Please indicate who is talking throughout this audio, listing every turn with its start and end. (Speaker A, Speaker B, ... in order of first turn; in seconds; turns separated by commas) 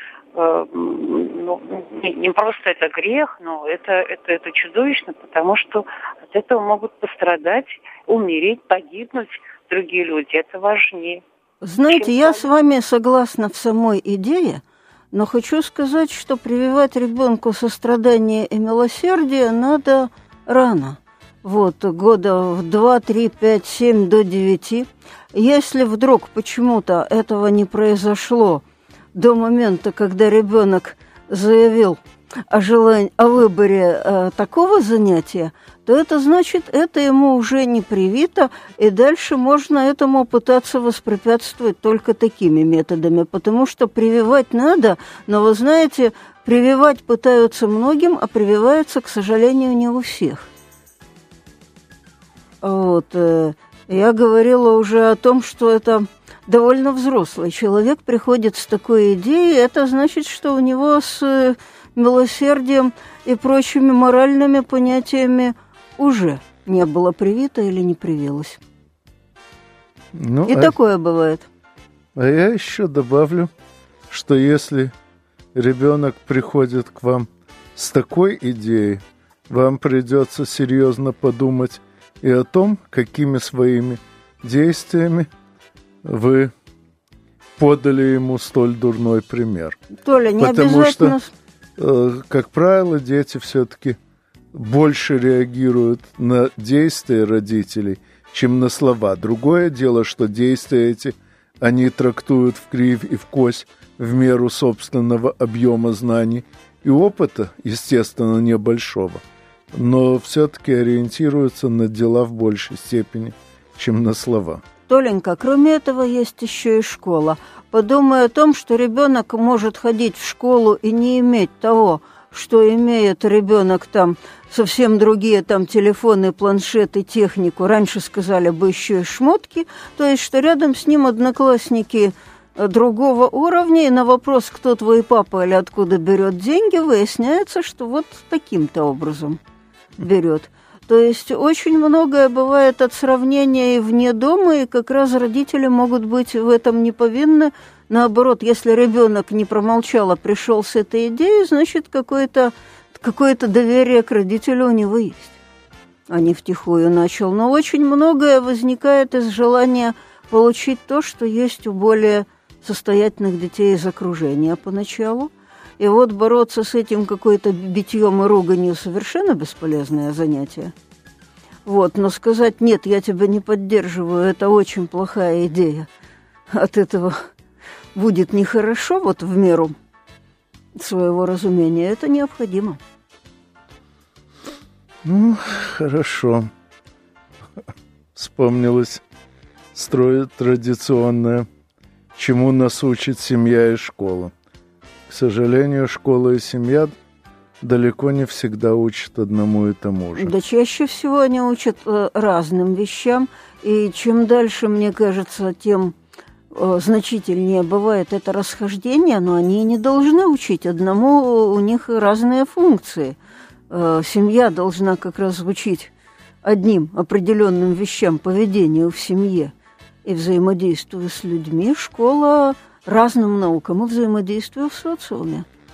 Speaker A: 0.3-11.2, Speaker B: 11.6-28.6, Speaker A: 11.9-12.5, Speaker B: 29.1-50.4, Speaker B: 52.6-68.6, Speaker C: 70.1-70.7, Speaker B: 70.5-71.5, Speaker C: 72.2-73.5, Speaker C: 74.1-74.9, Speaker C: 75.5-85.3, Speaker C: 86.0-86.5, Speaker C: 87.6-89.8, Speaker B: 90.0-91.3, Speaker C: 90.4-91.2, Speaker C: 91.8-94.0, Speaker C: 94.5-114.6, Speaker B: 114.9-139.4, Speaker B: 140.0-155.4, Speaker B: 156.1-170.7, Speaker B: 171.7-175.9, Speaker B: 176.5-177.2, Speaker B: 177.9-179.7, Speaker B: 180.8-182.8, Speaker C: 185.0-186.5, Speaker C: 188.2-189.0, Speaker C: 189.7-191.5, Speaker C: 192.1-194.3, Speaker C: 195.1-196.9, Speaker C: 197.6-200.3, Speaker B: 200.2-205.9, Speaker B: 206.5-213.2, Speaker B: 213.7-215.9, Speaker B: 216.4-219.5, Speaker B: 220.0-225.4